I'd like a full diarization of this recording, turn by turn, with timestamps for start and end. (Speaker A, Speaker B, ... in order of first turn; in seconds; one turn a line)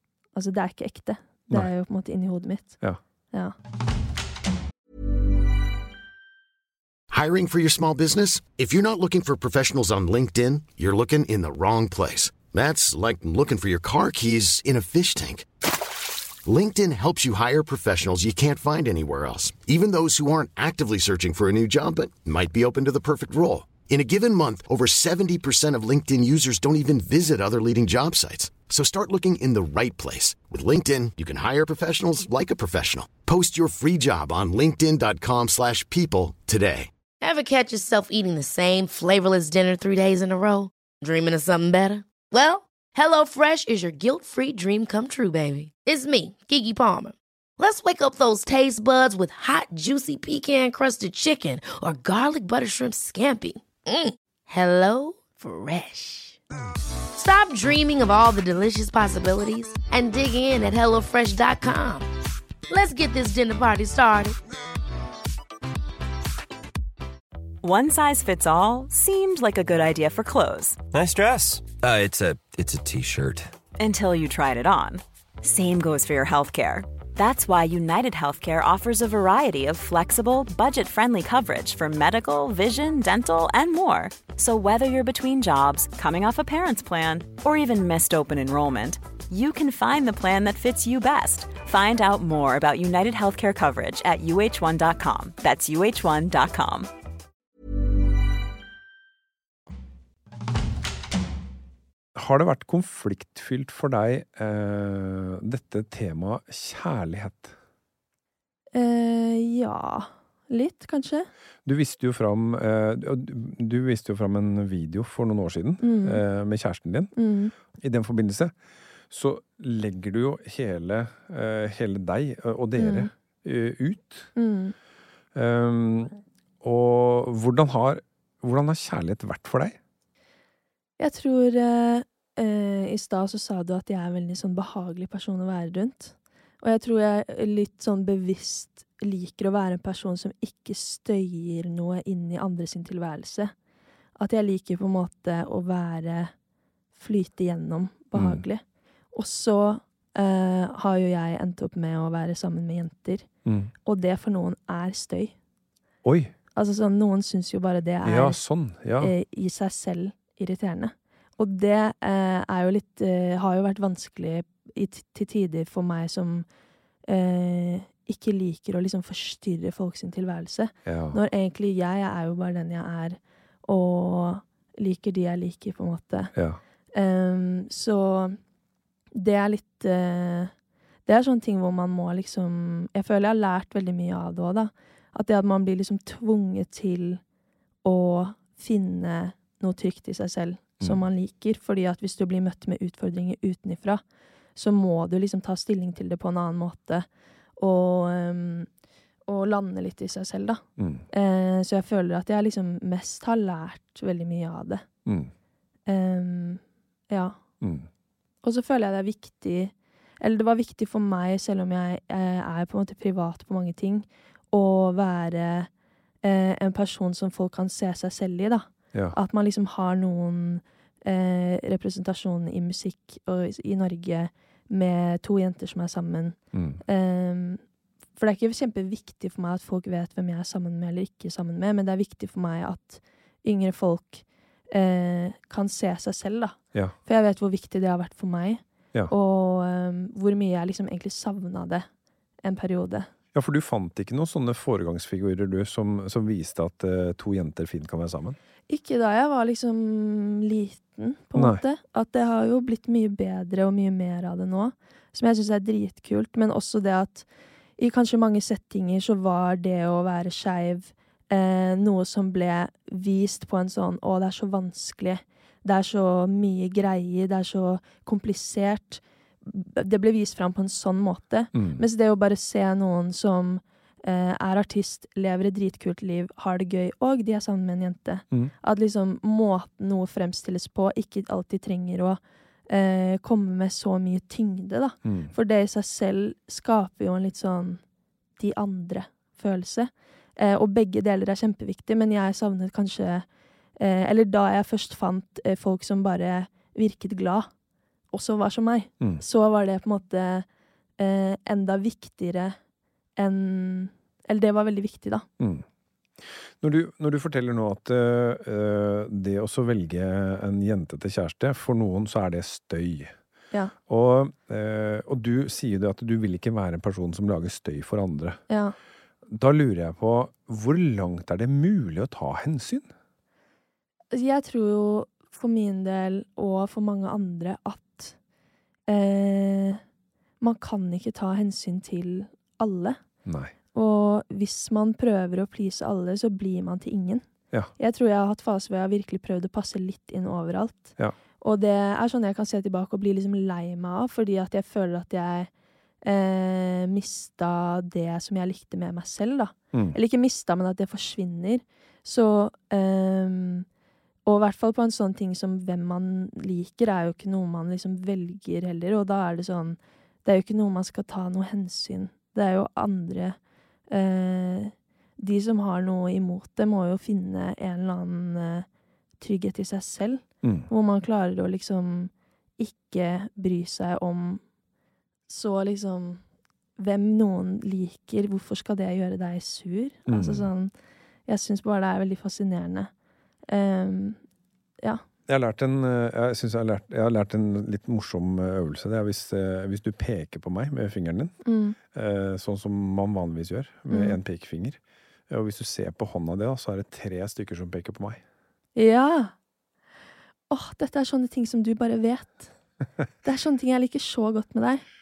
Speaker A: 0.3-2.8
Speaker B: 7.1-15.5
Speaker B: 16.4-36.9
Speaker C: 37.2-56.4
Speaker C: 57.1-62.1
Speaker C: 62.7-64.4
Speaker D: 67.6-70.8
Speaker E: 70.9-73.5
Speaker D: 73.8-96.9
Speaker F: 102.2-107.5
Speaker A: 108.7-111.3
Speaker F: 111.7-117.1
Speaker A: 115.8-116.2
Speaker A: 117.2-117.5
Speaker F: 117.7-118.5
Speaker F: 119.1-124.3
Speaker A: 122.8-123.1
Speaker A: 124.4-124.8
Speaker F: 125.3-129.8
Speaker A: 131.0-143.5
Speaker A: 144.2-146.3
Speaker A: 146.9-148.6
Speaker F: 148.1-148.4
Speaker A: 149.1-153.3
Speaker F: 153.5-153.7
Speaker A: 153.8-155.3
Speaker F: 156.0-156.3
Speaker A: 156.6-158.4
Speaker F: 158.0-159.1
Speaker A: 159.0-166.5
Speaker A: 167.1-176.3
Speaker F: 170.9-171.2
Speaker A: 176.9-178.4
Speaker A: 179.1-180.5
Speaker A: 181.1-187.2
Speaker A: 187.8-194.0
Speaker A: 194.6-197.1
Speaker A: 197.6-198.7
Speaker A: 199.3-204.8
Speaker F: 200.8-201.1
Speaker F: 205.1-205.3
Speaker A: 205.9-207.4
Speaker F: 207.6-207.9
Speaker A: 208.4-215.7
Speaker A: 216.2-227.6
Speaker F: 226.5-226.8
Speaker A: 228.2-241.9
Speaker A: 242.4-243.1
Speaker F: 243.3-248.4
Speaker A: 248.7-257.3
Speaker F: 251.3-251.6
Speaker A: 257.8-287.8
Speaker F: 271.6-271.8
Speaker F: 285.0-285.3
Speaker A: 288.4-293.3
Speaker A: 293.8-297.5
Speaker A: 298.1-300.5
Speaker A: 301.0-302.6
Speaker A: 303.2-305.3
Speaker F: 305.4-305.6
Speaker F: 306.6-313.1
Speaker F: 313.9-318.4
Speaker A: 318.5-318.8
Speaker F: 319.3-322.9
Speaker A: 324.1-328.1
Speaker A: 328.9-329.8
Speaker A: 330.4-333.0
Speaker F: 333.2-333.5
Speaker A: 333.7-337.2
Speaker A: 337.8-345.5
Speaker A: 346.0-353.7
Speaker F: 349.7-350.0
Speaker A: 354.3-363.4
Speaker A: 363.9-368.7
Speaker A: 369.2-374.4
Speaker F: 370.4-370.7
Speaker A: 375.3-376.2
Speaker A: 376.8-380.7
Speaker F: 380.1-380.5
Speaker A: 381.3-382.9
Speaker A: 383.5-384.2
Speaker F: 385.3-391.4
Speaker A: 391.4-391.8
Speaker F: 391.9-398.2
Speaker A: 393.9-394.2
Speaker A: 398.8-399.3
Speaker A: 400.5-402.5
Speaker A: 403.2-404.9